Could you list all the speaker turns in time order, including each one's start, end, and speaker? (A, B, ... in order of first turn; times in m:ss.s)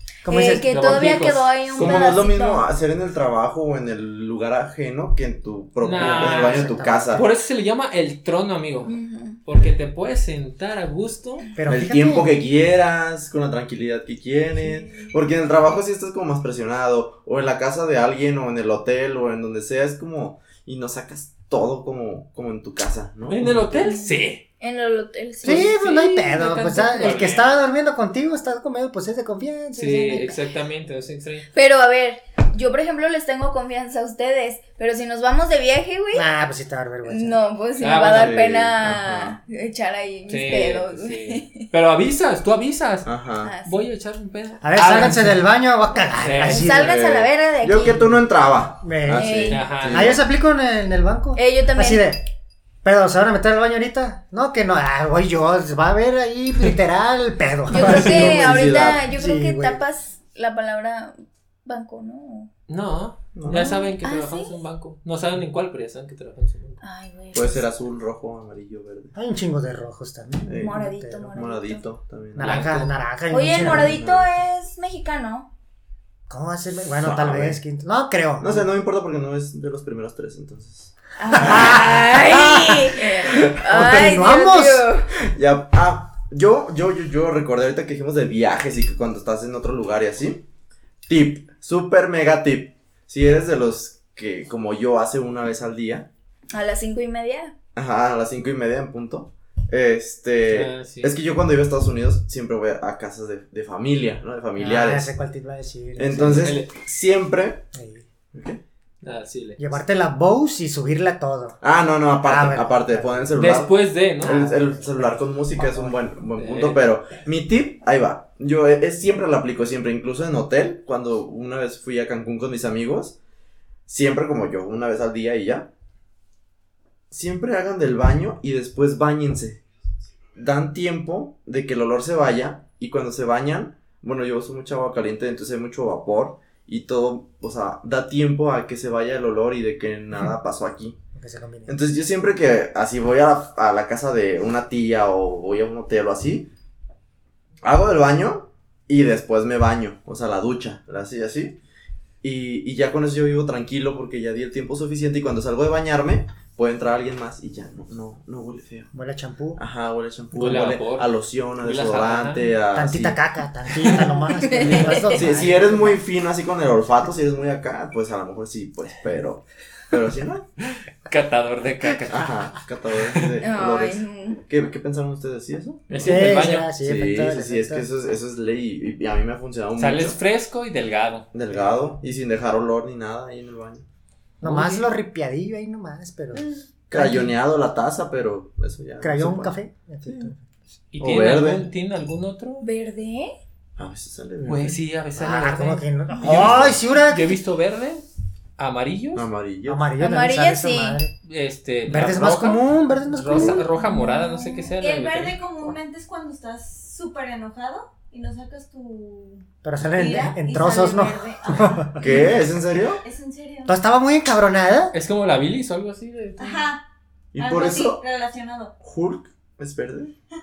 0:00.2-0:00.7 A
0:00.2-0:02.6 B
0:00.5-0:02.2 C
0:01.8-0:07.2 D
0:05.8-0:11.5 C
0:06.0-0:07.2 A
0:08.8-0:09.4 B
0:11.6-0:12.3 A
0:11.7-0:24.0 D
0:23.3-0:24.4 C
0:23.8-0:25.8 B
0:25.4-0:30.4 A
0:25.4-0:27.6 C
0:29.8-0:31.5 C
0:31.5-0:36.3 B
0:36.1-0:37.4 A
0:37.0-0:41.6 B
0:37.8-0:38.4 C
0:38.1-0:39.4 D
0:40.3-0:43.1 C
0:43.0-0:43.5 D
0:43.4-0:43.8 B
0:43.6-0:45.4 C
0:44.6-0:47.0 A
0:46.2-0:46.7 C
0:46.5-0:48.1 B
0:46.7-0:50.2 D
0:48.8-0:52.2 A
0:49.2-0:49.7 B
0:49.5-0:50.1 C
0:51.4-0:52.0 B
0:52.8-0:59.8 A
0:57.7-1:02.5 B
0:57.8-0:59.1 D
1:02.7-1:06.8 C
1:03.3-1:03.9 D
1:04.0-1:04.6 B
1:06.8-1:07.6 B
1:07.3-1:09.1 D
1:09.1-1:11.4 A
1:10.4-1:12.6 D
1:10.6-1:11.8 B
1:12.4-1:14.0 A
1:12.4-1:12.9 C
1:13.3-1:15.5 B
1:13.5-1:14.3 D
1:16.3-1:18.6 A
1:17.0-1:17.6 D
1:18.4-1:22.0 D
1:21.2-1:25.1 B
1:21.3-1:24.9 A
1:25.2-1:30.4 D
1:31.1-1:36.1 D
1:36.5-1:37.5 B
1:37.7-1:45.1 D
1:40.5-1:41.1 C
1:44.6-1:46.5 A
1:46.0-1:47.6 D
1:46.2-1:46.7 C
1:47.7-1:48.0 A
1:48.3-1:48.6 D
1:49.0-1:49.6 C
1:49.6-1:51.6 A
1:51.6-2:03.2 D
1:52.2-1:53.3 A
1:53.4-1:54.5 C
1:54.2-1:56.0 A
1:56.4-1:56.8 C
2:03.9-2:05.7 D
2:07.1-2:09.6 D
2:10.3-2:21.0 D
2:21.1-2:21.7 A
2:21.7-2:26.5 D
2:27.6-2:31.6 D
2:32.2-2:38.9 D
2:38.9-2:39.6 A
2:39.6-2:43.2 D
2:40.3-2:42.5 C
2:42.7-2:46.0 A
2:43.8-2:44.9 C
2:44.4-2:45.2 B
2:44.6-2:50.5 D
2:51.0-2:52.4 C
2:52.1-3:00.2 D
2:53.4-2:54.4 B
2:55.9-2:56.7 C
2:56.0-2:57.8 A
2:59.8-3:01.3 C
3:01.3-3:03.8 D
3:04.4-3:04.9 C
3:04.4-3:07.3 A
3:06.9-3:09.6 D
3:09.0-3:10.4 A
3:10.9-3:12.6 C
3:11.0-3:11.6 D
3:12.6-3:13.4 B
3:13.8-3:14.8 D
3:14.4-3:18.0 C
3:15.2-3:17.4 A
3:16.2-3:16.8 D
3:18.6-3:19.3 C
3:19.1-3:19.8 D
3:19.7-3:21.1 A
3:20.0-3:21.0 B
3:21.2-3:25.4 C
3:21.8-3:23.6 A
3:23.4-3:24.7 B
3:24.8-3:32.2 E
3:29.6-3:32.0 A
3:32.0-3:33.0 D
3:33.0-3:33.8 E
3:33.6-3:34.9 A
3:34.9-3:36.6 C
3:36.4-3:36.8 E
3:37.3-3:38.0 D
3:37.4-3:38.7 E
3:38.8-3:40.1 D